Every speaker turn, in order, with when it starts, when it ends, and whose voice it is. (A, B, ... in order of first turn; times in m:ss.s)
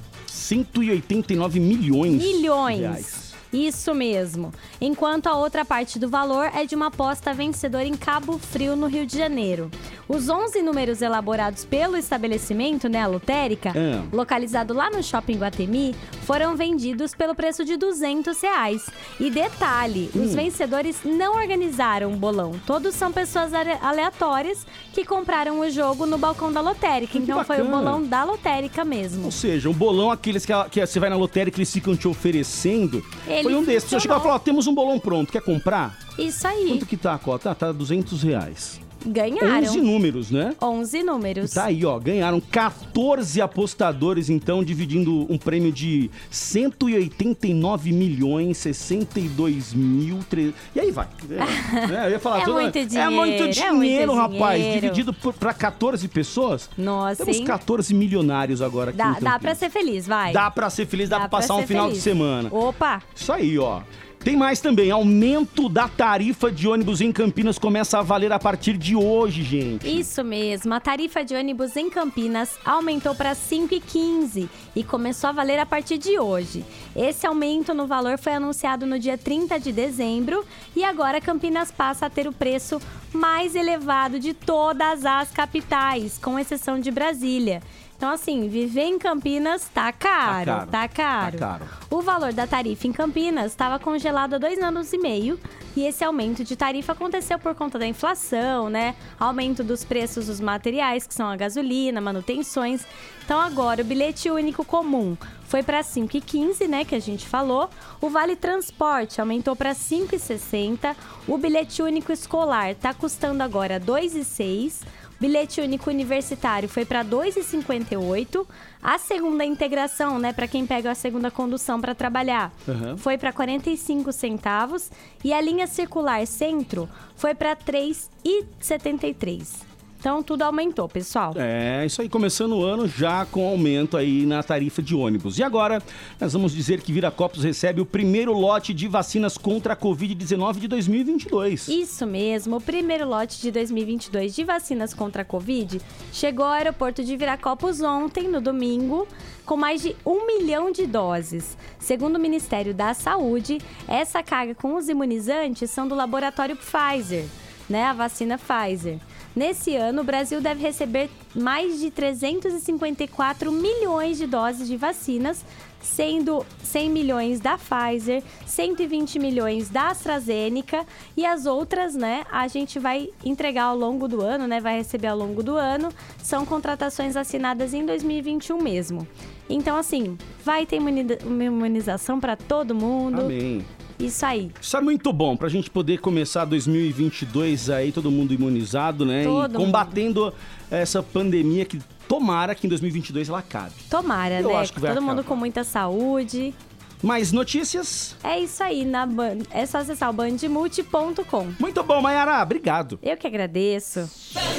0:00.3-0:03.3 A
0:02.0-0:29.4 B
0:13.7-0:14.1 A
0:20.1-0:20.5 A
0:27.1-0:28.0 A
0:29.2-0:36.0 A
0:33.2-0:34.3 B
0:36.2-0:36.9 B
0:36.7-0:38.8 A
0:39.0-0:39.9 B
0:39.4-0:40.6 A
0:40.6-0:41.7 B
0:41.4-0:59.6 A
0:51.4-0:55.1 B
0:56.8-0:57.6 B
0:58.9-1:00.5 B
1:00.3-1:02.6 A
1:01.0-1:03.0 B
1:03.1-1:10.1 A
1:09.8-2:11.4 B
1:30.2-1:31.7 A
2:02.7-2:03.0 A
2:11.3-2:21.7 A
2:21.7-3:03.3 B
3:03.1-3:03.7 A
3:04.0-3:04.5 B
3:04.6-3:13.8 A
3:09.2-3:10.0 B
3:13.9-3:16.5 B
3:14.4-3:15.4 A
3:17.0-3:18.2 A
3:18.2-3:21.6 B
3:21.6-3:23.0 A
3:23.0-3:24.1 B